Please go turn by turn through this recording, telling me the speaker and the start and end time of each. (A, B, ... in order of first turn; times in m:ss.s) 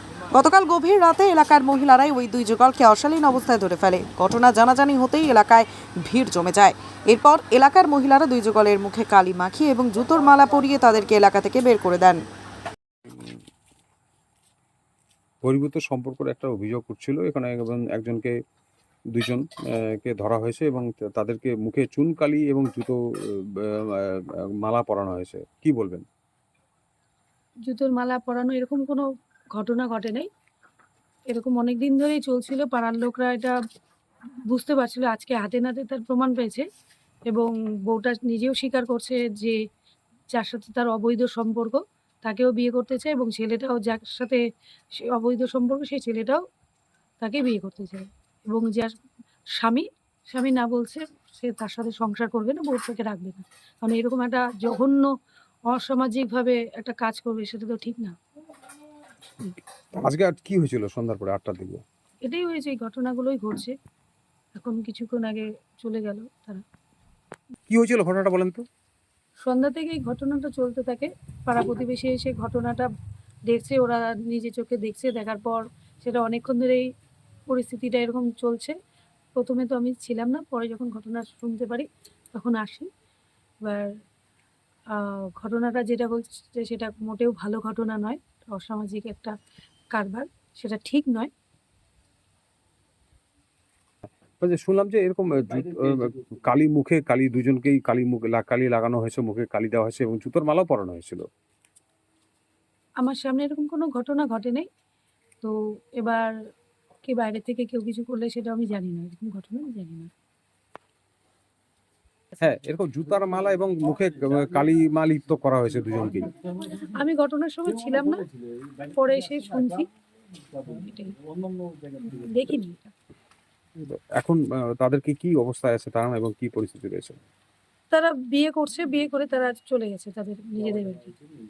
0:00.3-0:12.2 A
0:13.1-0:13.4 B
0:15.4-0:18.3 B
0:19.1-0:26.0 B
0:27.7-0:29.0 C
0:29.6-0:30.3 C
0:31.3-0:33.6 C
0:34.5-0:36.6 C
0:37.3-0:39.6 C
0:40.3-0:44.4 C
0:44.9-0:46.4 C
0:47.2-0:48.9 C
0:49.6-0:55.1 C
0:55.7-0:58.2 C
0:59.9-1:01.8 B
1:02.2-1:03.8 C
1:04.6-1:06.6 C
1:07.7-1:08.7 B
1:09.4-1:12.9 C
1:13.5-1:16.9 C
1:17.5-1:18.8 C
1:19.4-1:22.9 C
1:23.6-1:23.9 C
1:24.9-1:29.3 C
1:29.9-1:31.3 C
1:34.4-1:41.3 B
1:43.0-1:44.7 C
1:45.4-1:46.3 C
1:47.0-1:50.1 C
1:52.4-1:56.3 B
1:56.6-1:58.3 C
1:58.8-1:59.9 C
2:00.7-2:01.2 C
2:02.0-2:02.9 C
2:03.8-2:07.2 B
2:07.9-2:11.2 C